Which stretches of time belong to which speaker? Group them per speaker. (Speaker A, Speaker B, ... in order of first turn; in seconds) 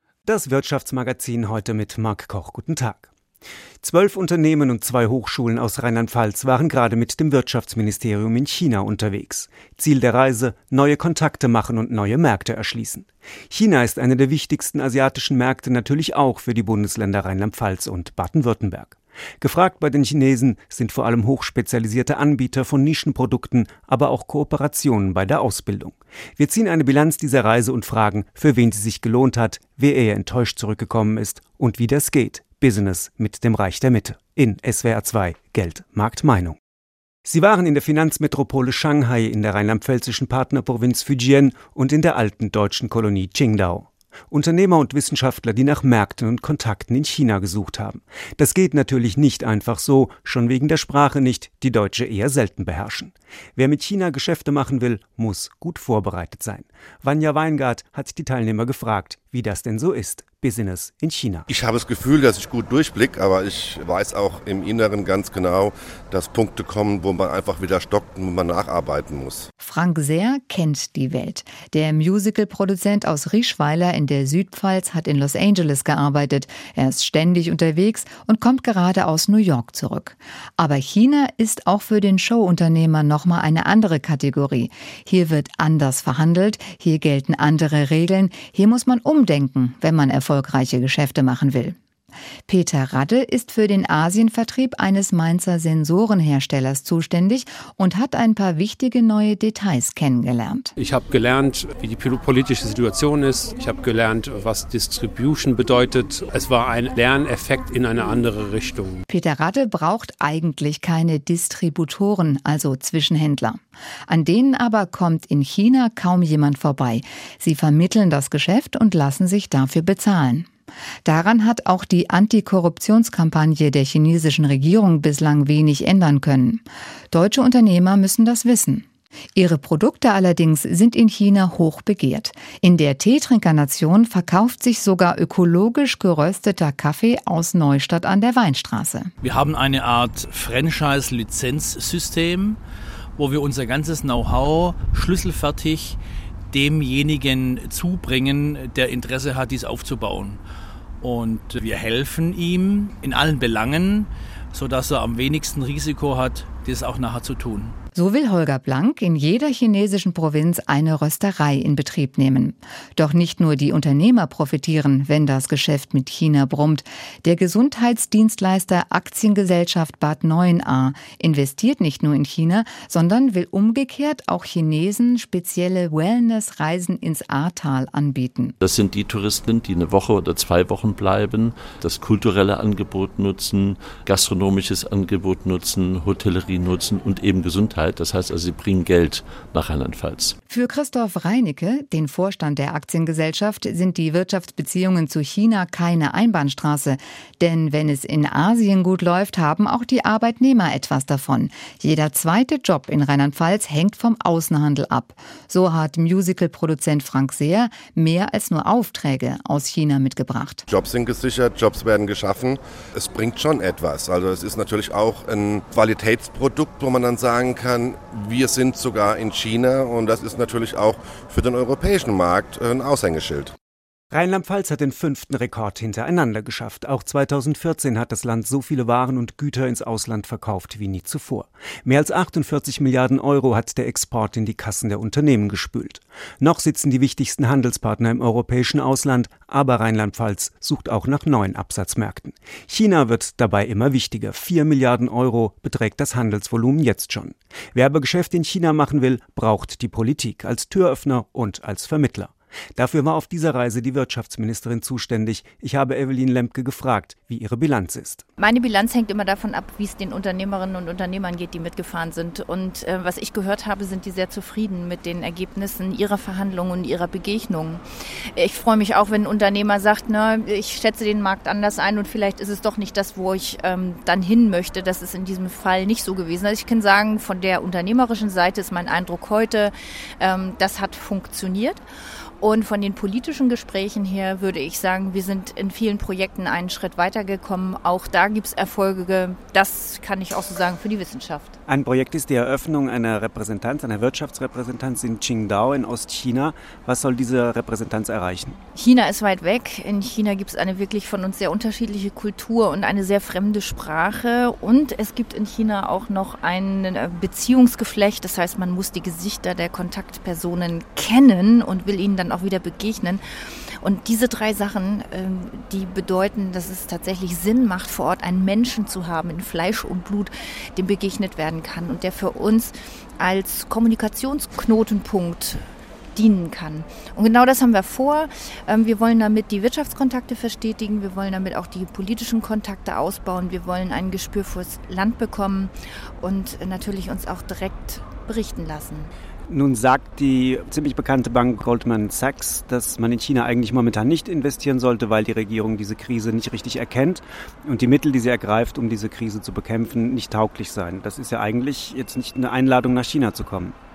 Speaker A: 0.2-3.1, 3.8-36.6, 37.2-61.5, 224.1-258.3, 291.7-298.6, 339.5-353.8
Speaker B: 61.5-69.5, 210.7-223.5
Speaker C: 69.6-91.8, 92.5-100.7, 109.1-120.5, 121.0-139.1, 157.9-178.6, 190.5-210.6
Speaker D: 100.8-109.0
Speaker E: 139.2-142.6, 143.2-146.0, 146.5-150.4, 151.0-157.8
Speaker F: 178.6-190.4
Speaker G: 258.4-267.8, 268.4-281.8, 282.4-291.6, 298.8-313.2, 313.8-325.6, 326.1-339.1